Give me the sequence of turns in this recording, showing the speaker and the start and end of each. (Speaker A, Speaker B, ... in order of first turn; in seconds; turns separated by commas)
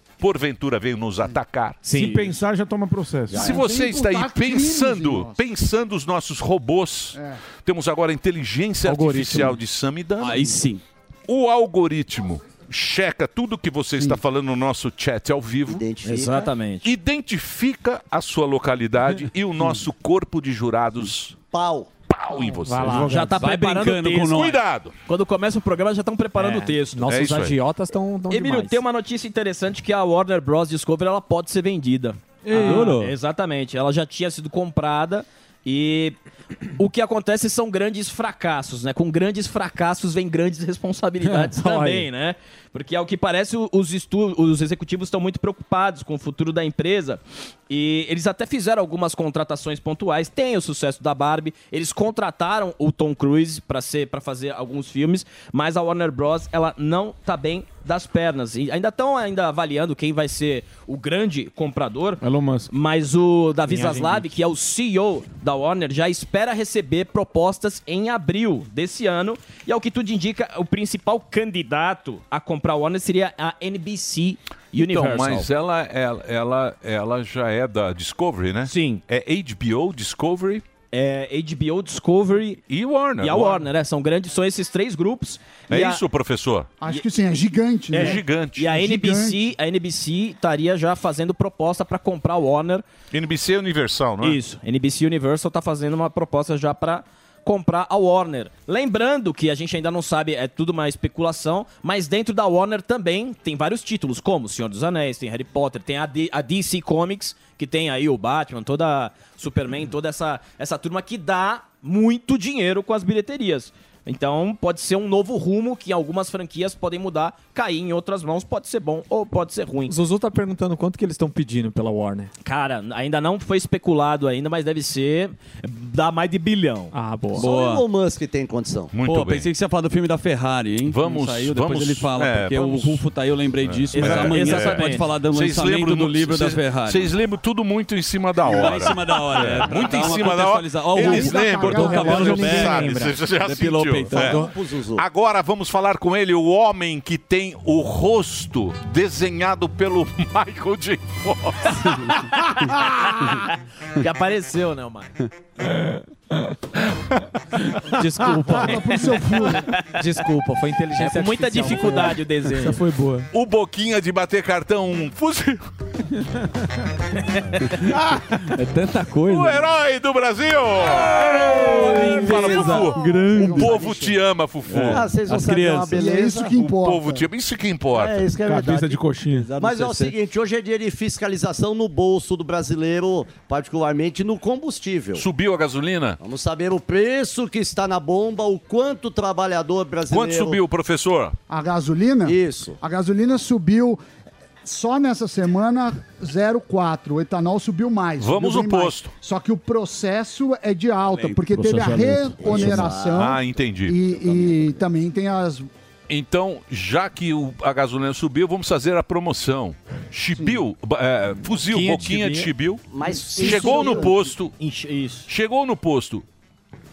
Speaker A: 0.2-1.8, Speaker B: 1.9-2.2, Speaker C: 1.9-3.4, Speaker D: 3.3-3.6, Speaker E: 3.3-5.4, Speaker A: 3.3-10.6, Speaker E: 7.1-7.4, Speaker B: 8.8-9.6, Speaker F: 10.2-10.8, Speaker A: 11.3-15.8, Speaker D: 15.7-16.5, Speaker G: 16.0-16.9, Speaker A: 16.8-21.4, Speaker D: 21.5-21.9, Speaker A: 22.1-23.2, Speaker B: 22.6-23.2, Speaker F: 22.8-24.6, Speaker G: 23.1-24.5, Speaker A: 24.2-24.9, Speaker G: 25.1-27.5, Speaker B: 26.4-28.8, Speaker A: 27.1-27.6, Speaker G: 28.3-36.2, Speaker F: 32.5-33.1, Speaker B: 32.5-32.9, Speaker G: 36.8-75.5, Speaker B: 41.5-42.1, Speaker C: 62.2-62.7, Speaker B: 63.7-64.3, Speaker A: 74.8-80.6, Speaker G: 78.7-79.0, Speaker G: 80.9-82.6, Speaker A: 82.7-83.7, Speaker G: 83.2-86.0, Speaker A: 85.7-86.7, Speaker E: 86.8-89.5, Speaker G: 87.9-92.8, Speaker A: 88.0-88.7, Speaker A: 93.1-94.4, Speaker G: 94.2-120.0, Speaker B: 119.9-122.3, Speaker G: 122.4-126.9, Speaker B: 126.9-127.5, Speaker F: 127.4-127.9, Speaker D: 127.4-128.9, Speaker A: 128.9-129.5, Speaker F: 129.0-137.1, Speaker A: 130.8-133.1, Speaker A: 133.6-152.1, Speaker G: 133.9-135.1, Speaker F: 138.4-144.5, Speaker E: 141.0-142.5, Speaker B: 141.6-143.2, Speaker D: 144.1-145.0, Speaker G: 152.2-153.4, Speaker G: 154.0-155.1, Speaker B: 157.9-159.0, Speaker E: 158.5-159.7, Speaker G: 159.5-159.8, Speaker B: 159.8-162.2, Speaker G: 161.0-162.8, Speaker C: 162.6-163.3, Speaker A: 163.3-165.7, Speaker F: 167.9-169.7, Speaker A: 169.2-175.1, Speaker F: 171.3-173.9, Speaker E: 173.1-174.2, Speaker F: 174.7-176.0, Speaker D: 174.8-176.6, Speaker E: 175.9-177.2, Speaker A: 176.6-178.2, Speaker D: 177.9-179.0, Speaker C: 178.4-179.5, Speaker F: 179.3-180.2, Speaker D: 179.6-185.2, Speaker A: 185.2-186.2, Speaker D: 186.2-190.6, Speaker A: 190.1-191.4, Speaker E: 191.5-194.0, Speaker D: 192.2-192.8, Speaker E: 194.6-205.7, Speaker A: 198.2-199.1, Speaker F: 201.1-202.8, Speaker D: 202.4-203.4, Speaker A: 203.2-204.0, Speaker D: 204.1-204.8, Speaker A: 206.1-214.6, Speaker B: 211.7-212.5, Speaker D: 212.9-214.3, Speaker G: 214.6-215.3, Speaker A: 215.3-216.2